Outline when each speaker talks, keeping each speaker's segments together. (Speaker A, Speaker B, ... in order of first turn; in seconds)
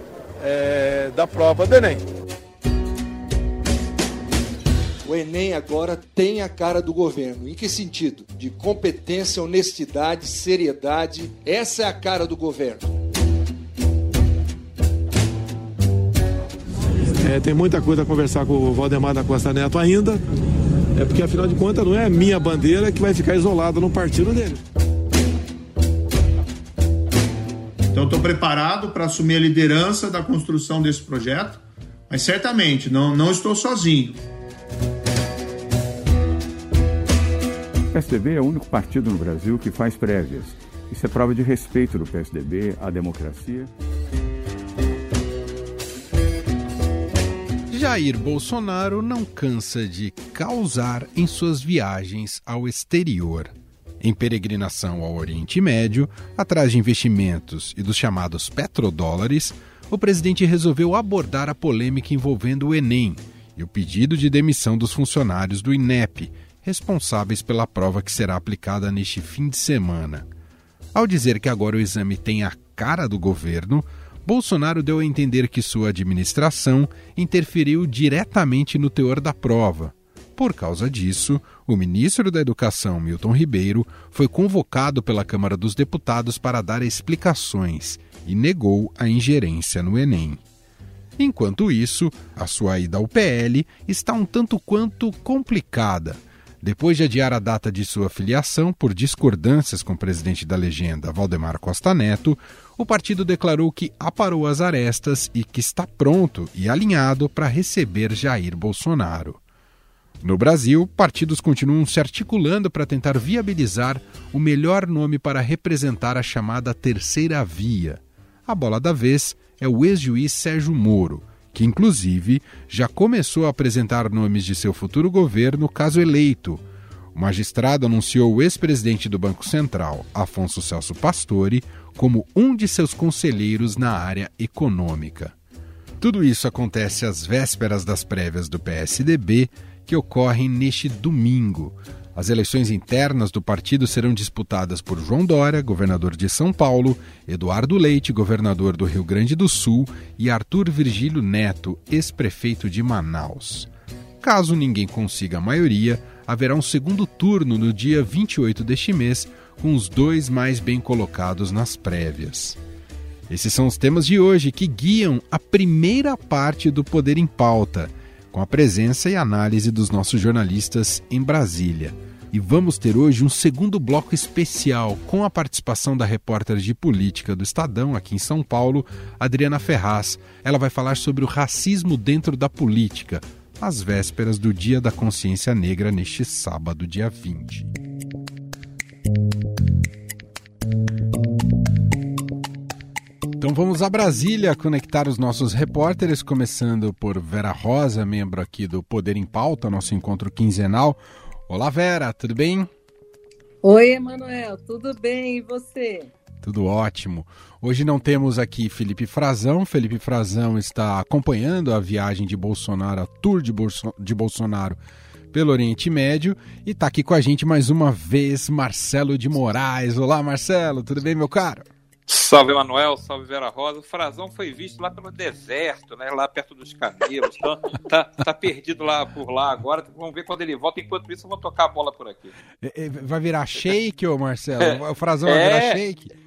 Speaker A: 0.4-2.0, 17.2-20.2, 20.9-24.6
Speaker B: 5.0-12.9
Speaker C: 27.9-34.2
Speaker D: 37.9-43.7
Speaker E: 47.7-70.3, 70.9-90.4, 91.2-109.4, 110.2-135.3, 136.0-153.7, 154.2-162.6, 163.3-187.7, 193.4-202.7, 206.4-214.8, 215.3-221.7, 232.6-236.1
Speaker F: 203.6-206.1
Speaker G: 222.1-232.3, 234.6-235.8